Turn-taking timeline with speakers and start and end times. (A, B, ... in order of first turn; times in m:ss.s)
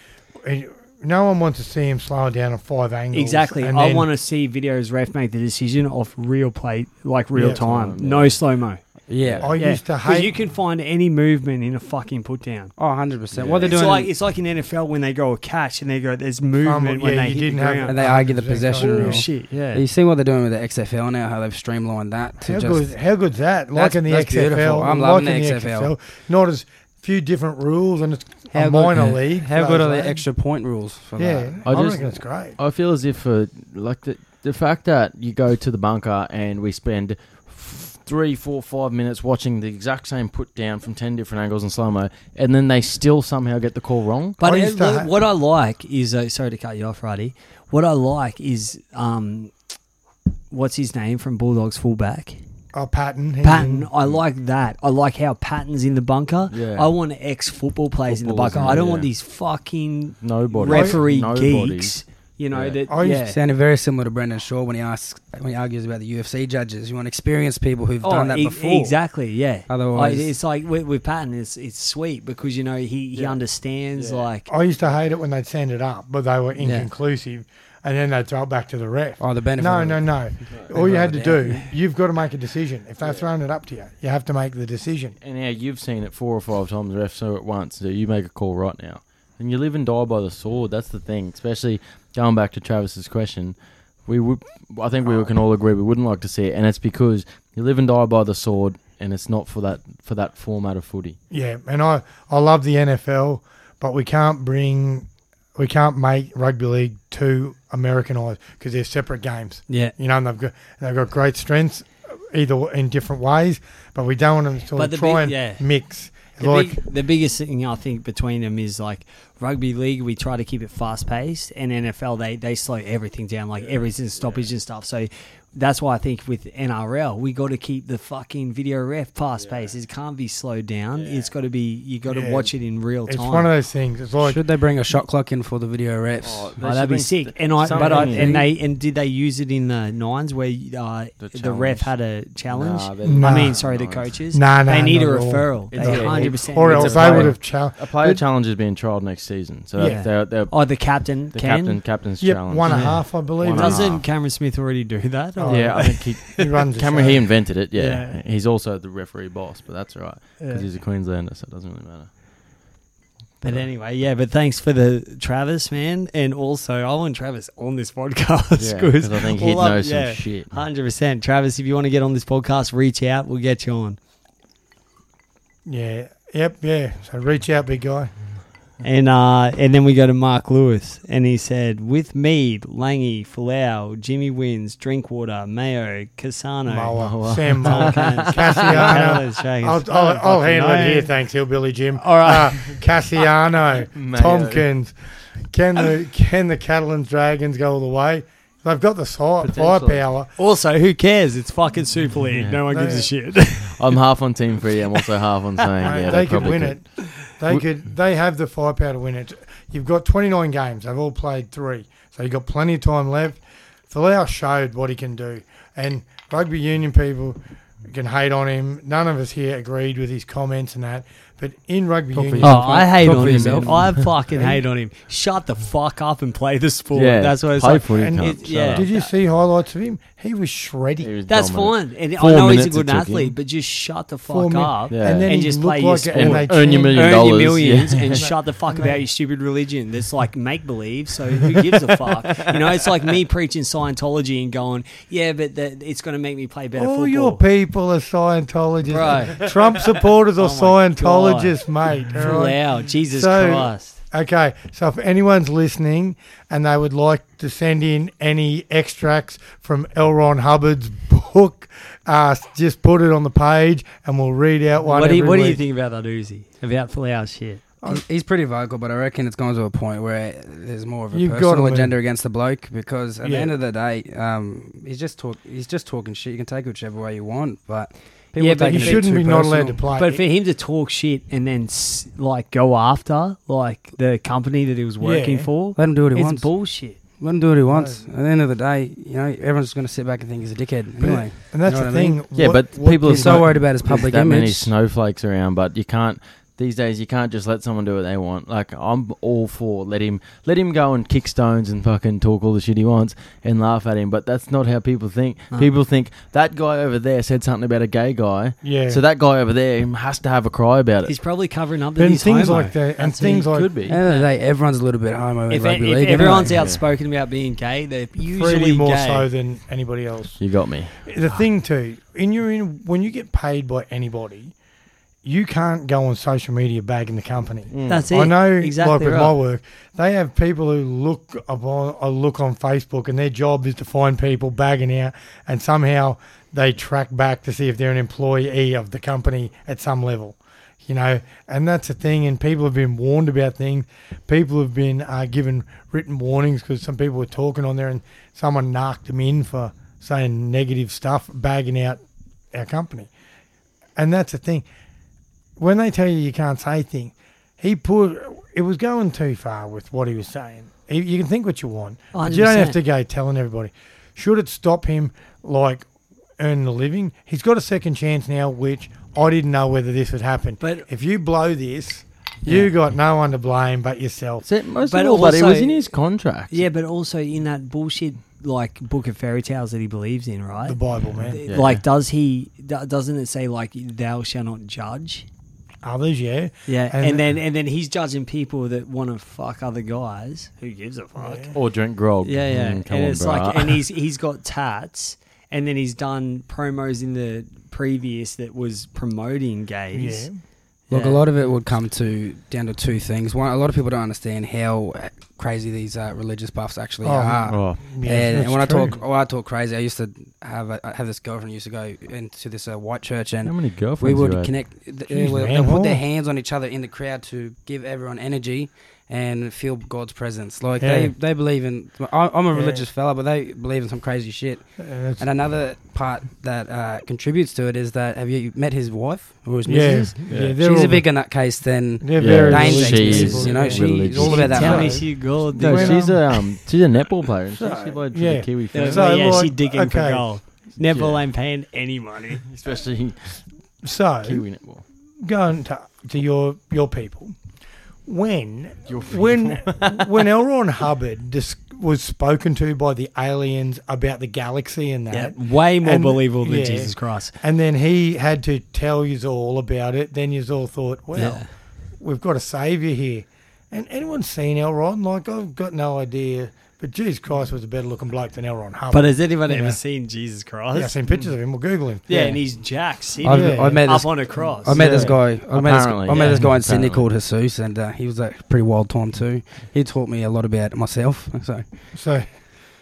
0:00.4-0:04.1 A
0:03.1-0:08.8 B
0:07.3-0:07.6 A
0:07.4-0:08.4 C
0:09.1-0:09.5 D
0:09.1-0:09.5 C
0:09.4-0:10.3 A
0:09.6-0:12.7 B
0:12.8-0:14.1 D
0:13.3-0:13.8 C
0:13.6-0:18.0 B
0:16.6-0:19.3 A
0:17.8-0:22.9 D
0:18.7-0:19.8 B
0:22.4-0:30.3 A
0:23.7-0:25.9 D
0:28.5-0:31.7 D
0:31.2-0:32.6 A
0:31.7-0:44.4 C
0:44.4-0:49.5 B
0:44.4-0:45.1 A
0:50.5-0:52.4 B
0:52.7-0:53.9 A
0:53.4-1:03.4 B
0:56.5-0:56.9 C
0:58.1-0:59.1 C
1:00.2-1:02.0 C
1:00.7-1:01.0 A
1:02.5-1:02.8 C
1:02.9-1:03.3 A
1:03.2-1:09.0 D
1:08.0-1:14.5 B
1:09.7-1:10.3 D
1:14.0-1:14.3 C
1:14.5-1:25.2 A
1:16.6-1:16.9 B
1:19.2-1:21.7 D
1:25.2-1:41.2 C
1:41.3-1:56.8 A
1:49.7-1:49.9 B
1:54.8-1:55.6 B
1:56.3-2:13.5 B
2:03.7-2:04.5 C
2:09.4-2:09.7 C
2:11.0-2:11.3 C
2:12.1-2:12.5 A
2:13.1-2:14.4 A
2:14.2-2:16.5 D
2:16.2-2:18.5 C
2:16.6-2:27.4 B
2:17.7-2:18.4 D
2:21.2-2:21.9 C
2:22.5-2:24.1 C
2:23.0-2:23.6 A
2:24.3-2:28.2 A
2:25.7-2:30.7 C
2:29.8-2:30.0 A
2:29.8-2:31.8 B
2:31.3-2:34.0 C
2:32.2-2:34.0 A
2:32.7-2:36.5 B
2:35.4-2:37.3 A
2:35.5-2:42.1 C
2:37.8-2:38.2 B
2:40.4-2:40.7 B
2:43.4-2:43.7 C
2:43.4-2:54.0 B
2:48.6-2:50.6 C
2:55.7-2:58.1 A
2:58.8-3:11.1 B
3:06.7-3:14.9 A
3:07.0-3:09.3 C
3:11.9-3:12.8 B
3:13.9-3:14.7 C
3:15.5-3:20.3 A
3:19.4-3:20.0 C
3:20.4-3:24.0 B
3:22.3-3:22.6 C
3:22.7-3:23.1 A
3:23.6-3:27.0 C
3:25.8-3:26.2 B
3:25.8-3:43.4 A
3:42.1-3:44.0 D
3:42.4-3:49.1 B
3:43.1-3:43.8 C
3:44.3-3:44.6 A
3:46.9-3:48.9 C
3:48.0-3:51.1 A
3:51.0-3:53.3 C
3:51.3-4:07.4 B
3:54.3-3:57.2 A
3:54.9-3:55.3 C
3:56.1-3:58.2 C
3:58.1-3:59.0 A
4:02.1-4:02.6 C
4:06.8-4:25.6 A
4:08.8-4:09.5 B
4:10.4-4:11.6 B
4:12.1-4:14.0 B
4:24.9-4:27.6 B
4:27.9-4:39.2 D
4:31.1-4:31.9 A
4:33.2-4:33.5 A
4:38.4-4:47.0 B
4:38.7-4:40.2 A
4:45.0-4:45.5 A
4:45.8-4:54.7 D
4:47.7-4:48.0 A
4:51.0-4:53.6 A
4:52.3-5:11.2 C
5:08.6-5:09.0 A
5:11.0-5:13.5 B
5:12.0-5:13.7 A
5:13.4-5:14.0 C
5:13.8-5:16.6 D
5:14.0-5:14.3 B
5:15.5-5:19.3 B
5:16.5-5:16.8 C
5:18.3-5:20.4 A
5:20.4-5:21.0 C
5:21.0-5:24.6 A
5:25.2-5:52.0 A
5:27.7-5:28.1 C
5:27.9-5:29.4 B
5:52.5-5:53.1 A
5:54.0-5:54.7 A
5:55.6-6:05.8 A
6:02.1-6:02.8 B
6:06.4-6:14.5 A
6:10.6-6:10.9 B
6:12.4-6:12.7 B
6:14.4-6:16.7 C
6:14.8-6:15.9 B
6:16.5-6:25.3 B
6:20.7-6:21.4 A
6:21.4-6:21.8 C
6:25.8-6:27.3 A
6:26.7-6:31.5 B
6:31.2-6:31.6 A
6:31.5-6:33.8 C
6:32.2-6:40.3 B
6:39.9-6:40.4 A
6:40.9-6:41.2 B
6:40.9-7:15.0 D
6:47.0-6:49.0 A
6:47.5-6:47.8 C
6:53.4-6:54.6 C
6:55.1-6:56.0 A
7:00.8-7:01.2 A
7:02.5-7:02.9 A
7:04.8-7:05.3 A
7:09.6-7:11.1 A
7:09.9-7:10.2 B
7:10.3-7:10.6 C
7:12.0-7:16.2 A
7:12.2-7:19.5 C
7:13.1-7:13.7 B
7:14.3-7:16.5 B
7:17.6-7:20.3 A
7:18.7-7:22.4 B
7:20.8-7:21.2 C
7:22.5-7:23.4 C
7:23.8-7:24.4 A
7:24.2-7:24.8 C
7:25.2-7:27.4 A
7:28.1-7:41.4 A
7:28.9-7:30.1 C
7:35.1-7:37.4 B
7:41.1-7:41.5 B
7:42.0-7:49.8 A
7:48.9-7:51.0 B
7:50.7-7:52.1 A
7:52.1-7:55.2 B
7:52.1-7:52.4 D
7:53.2-8:01.7 D
7:53.3-7:53.8 A
7:54.7-7:57.1 C
8:01.9-8:02.4 A